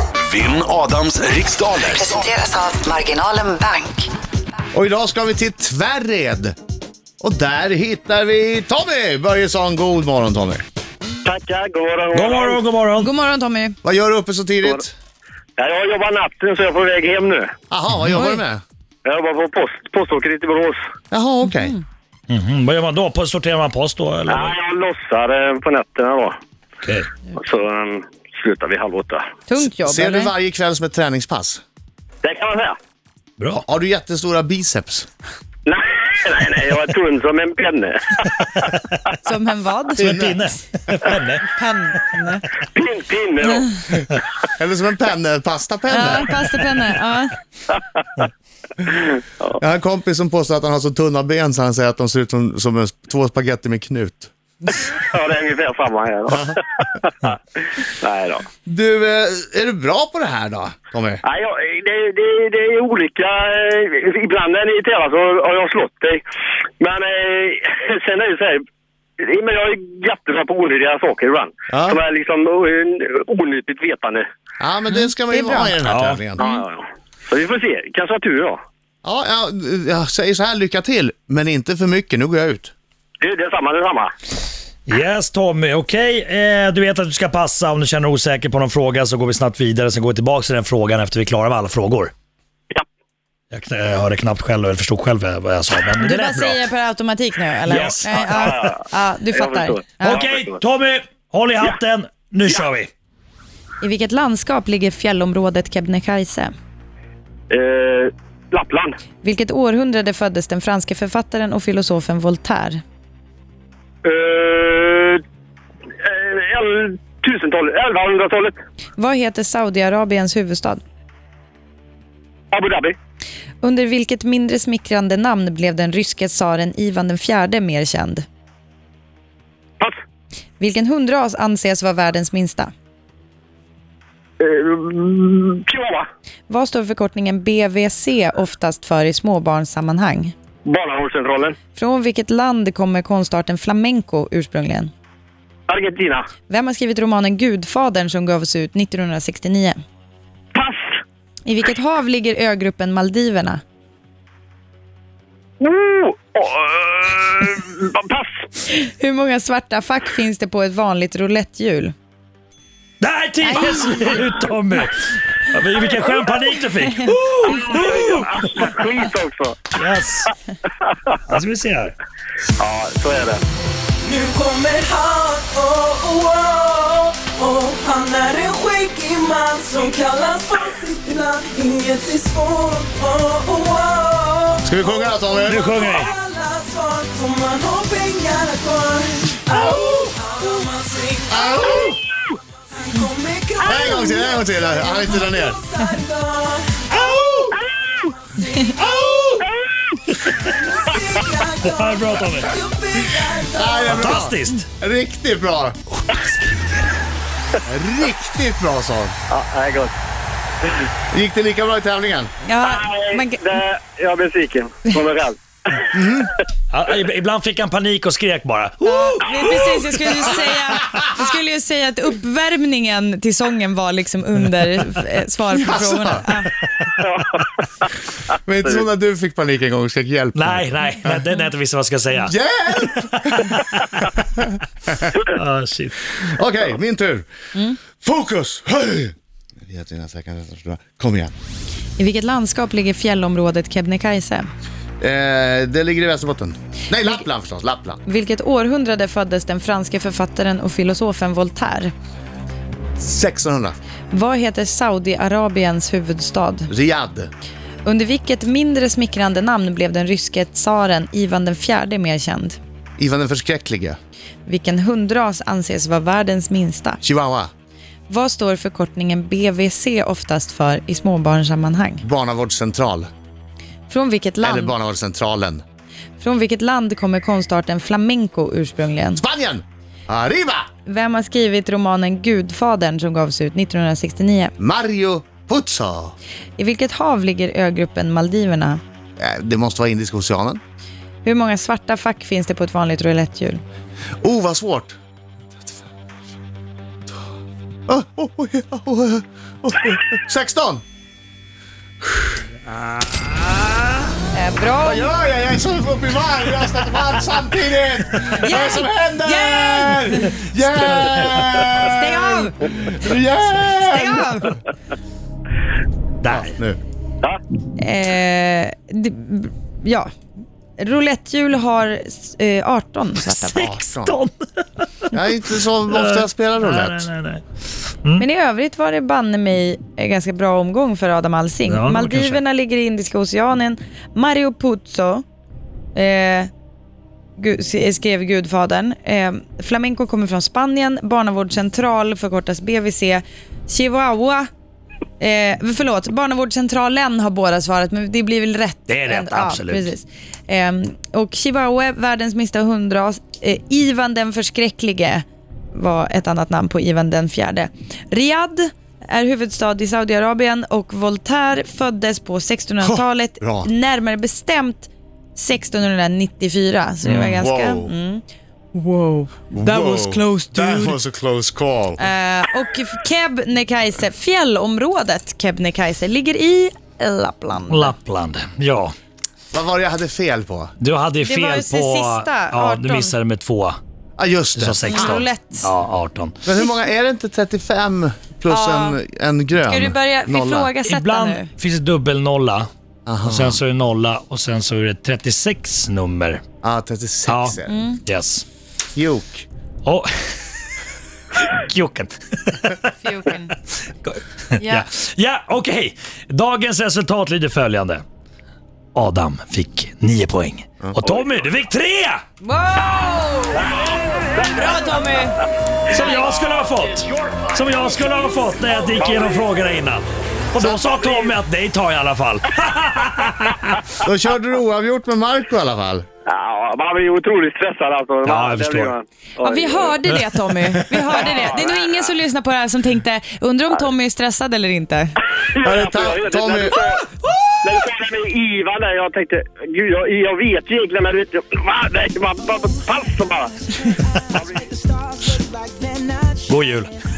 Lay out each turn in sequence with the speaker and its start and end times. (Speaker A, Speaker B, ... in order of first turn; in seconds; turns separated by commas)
Speaker A: 0.2-2.3, Speaker B: 2.0-4.1, Speaker C: 4.7-6.5, Speaker C: 7.2-10.6, Speaker D: 11.2-12.6, Speaker E: 12.1-13.1, Speaker F: 13.0-13.8, Speaker C: 13.8-14.9, Speaker D: 15.6-17.5, Speaker C: 17.7-18.6, Speaker F: 18.1-18.4, Speaker D: 19.1-20.8, Speaker C: 21.1-21.8, Speaker E: 22.3-24.6, Speaker D: 24.3-26.4, Speaker E: 26.8-27.1, Speaker D: 27.4-29.2, Speaker F: 29.5-30.3, Speaker C: 29.6-31.6, Speaker D: 32.2-32.8, Speaker E: 33.4-33.6, Speaker C: 33.6-35.1, Speaker D: 35.7-38.7, Speaker E: 38.2-39.2, Speaker F: 39.2-40.1, Speaker E: 40.0-42.0, Speaker C: 40.0-40.5, Speaker F: 41.5-42.5, Speaker D: 42.7-43.7, Speaker C: 43.9-46.4, Speaker F: 45.9-47.4, Speaker D: 48.9-49.6, Speaker C: 49.6-54.3, Speaker D: 55.1-57.1, Speaker D: 57.7-58.5, Speaker C: 58.7-61.2, Speaker D: 61.2-66.2, Speaker D: 66.8-68.6, Speaker D: 69.2-74.2, Speaker C: 71.7-72.0, Speaker C: 74.6-76.4, Speaker F: 74.9-75.8, Speaker E: 75.8-76.2, Speaker D: 76.4-78.6, Speaker C: 79.0-82.7, Speaker D: 83.2-84.1, Speaker E: 84.9-92.1, Speaker E: 93.5-96.6, Speaker F: 96.0-100.2, Speaker E: 97.7-98.7, Speaker D: 97.8-98.8, Speaker D: 99.3-100.6, Speaker E: 100.0-102.9, Speaker F: 103.8-106.5, Speaker D: 107.5-108.9, Speaker F: 109.2-112.8, Speaker D: 114.0-115.2, Speaker D: 116.0-118.6, Speaker F: 119.0-120.8, Speaker D: 122.5-123.0, Speaker F: 123.6-128.3, Speaker F: 130.6-132.7, Speaker D: 134.4-136.1, Speaker F: 136.5-140.3, Speaker D: 140.7-141.6, Speaker F: 141.8-144.9, Speaker D: 145.7-146.3, Speaker F: 146.5-149.8, Speaker D: 150.6-150.9, Speaker F: 151.5-153.6, Speaker D: 155.6-158.4, Speaker F: 158.7-161.9, Speaker E: 163.0-168.7, Speaker F: 163.4-164.2, Speaker D: 167.4-169.7, Speaker E: 169.7-170.3, Speaker E: 171.3-172.0, Speaker D: 172.6-173.4, Speaker G: 174.0-191.9, Speaker C: 184.6-185.8, Speaker E: 185.4-186.1, Speaker C: 189.6-189.9, Speaker C: 191.3-192.0, Speaker G: 192.7-197.1, Speaker C: 193.6-195.6, Speaker C: 196.9-197.6, Speaker G: 198.4-199.2, Speaker C: 198.7-199.5, Speaker D: 199.4-200.0, Speaker E: 200.1-200.5, Speaker G: 200.3-204.1, Speaker E: 201.6-202.6, Speaker C: 203.4-205.8, Speaker E: 203.8-204.7, Speaker E: 206.4-206.9, Speaker C: 207.7-209.2, Speaker D: 209.3-209.9, Speaker C: 211.1-212.3, Speaker F: 212.5-213.6, Speaker D: 212.6-215.9, Speaker C: 215.9-216.3, Speaker E: 216.7-220.8, Speaker F: 218.8-226.5, Speaker C: 225.6-226.2, Speaker D: 227.0-227.4, Speaker C: 228.4-231.2, Speaker E: 230.3-234.1, Speaker C: 232.2-233.5, Speaker C: 234.2-235.2, Speaker E: 235.3-236.1, Speaker C: 236.2-237.3, Speaker C: 238.0-239.1, Speaker C: 239.7-241.3, Speaker F: 242.0-244.5, Speaker C: 245.0-248.0, Speaker F: 248.1-251.9, Speaker C: 253.0-253.8, Speaker F: 254.1-256.7, Speaker C: 256.7-257.3, Speaker F: 257.9-262.6, Speaker C: 263.0-264.0, Speaker F: 264.4-267.0, Speaker C: 267.0-267.5, Speaker F: 268.1-272.0, Speaker C: 272.0-273.1, Speaker F: 273.9-274.7, Speaker C: 274.4-275.6, Speaker F: 276.2-279.2, Speaker C: 279.1-280.7, Speaker F: 280.9-284.5, Speaker C: 284.6-286.1, Speaker F: 286.6-288.8, Speaker C: 289.2-290.6, Speaker F: 291.2-293.6, Speaker C: 294.2-295.0, Speaker C: 295.6-295.9, Speaker C: 297.9-300.8, Speaker E: 302.7-303.8, Speaker F: 304.3-305.1, Speaker C: 304.8-314.5, Speaker F: 308.4-310.3, Speaker E: 310.9-311.3, Speaker F: 311.7-312.9, Speaker F: 313.7-314.6, Speaker E: 316.2-316.5, Speaker C: 316.3-316.8, Speaker F: 317.8-320.1, Speaker F: 320.8-323.7, Speaker E: 323.2-325.2, Speaker C: 323.6-324.2, Speaker C: 325.1-327.1, Speaker E: 325.9-327.4, Speaker F: 328.2-335.2, Speaker E: 331.7-332.4, Speaker F: 335.9-336.5, Speaker F: 337.4-344.5, Speaker F: 345.2-368.2, Speaker E: 348.9-349.9, Speaker C: 362.8-363.7, Speaker E: 367.1-367.4, Speaker C: 367.2-367.9, Speaker F: 368.7-371.0, Speaker C: 369.5-372.0, Speaker F: 372.0-377.9, Speaker E: 377.7-378.9, Speaker C: 379.5-380.7, Speaker E: 380.8-383.8, Speaker F: 381.2-383.2, Speaker C: 384.2-385.2, Speaker E: 384.6-386.4, Speaker F: 384.9-385.7, Speaker C: 386.4-390.7, Speaker F: 388.5-389.0, Speaker F: 389.6-391.5, Speaker E: 390.8-392.7, Speaker C: 393.1-393.6, Speaker E: 393.2-396.4, Speaker C: 396.6-397.8, Speaker E: 397.3-398.4, Speaker F: 397.7-398.0, Speaker C: 398.9-399.5, Speaker E: 399.8-400.5, Speaker E: 401.4-402.9, Speaker F: 402.9-403.6, Speaker E: 404.5-408.0, Speaker F: 404.5-404.9, Speaker E: 408.9-412.2, Speaker F: 412.4-413.8, Speaker D: 413.6-414.7, Speaker F: 414.5-415.4, Speaker E: 415.9-423.9, Speaker D: 419.0-419.4, Speaker D: 420.6-421.2, Speaker C: 424.0-426.1, Speaker D: 426.3-430.0, Speaker E: 428.2-429.0, Speaker F: 429.4-435.2, Speaker D: 431.1-432.1, Speaker D: 435.5-437.1, Speaker C: 435.6-436.8, Speaker D: 437.6-443.5, Speaker D: 444.3-444.7, Speaker G: 444.8-446.4, Speaker E: 446.5-446.9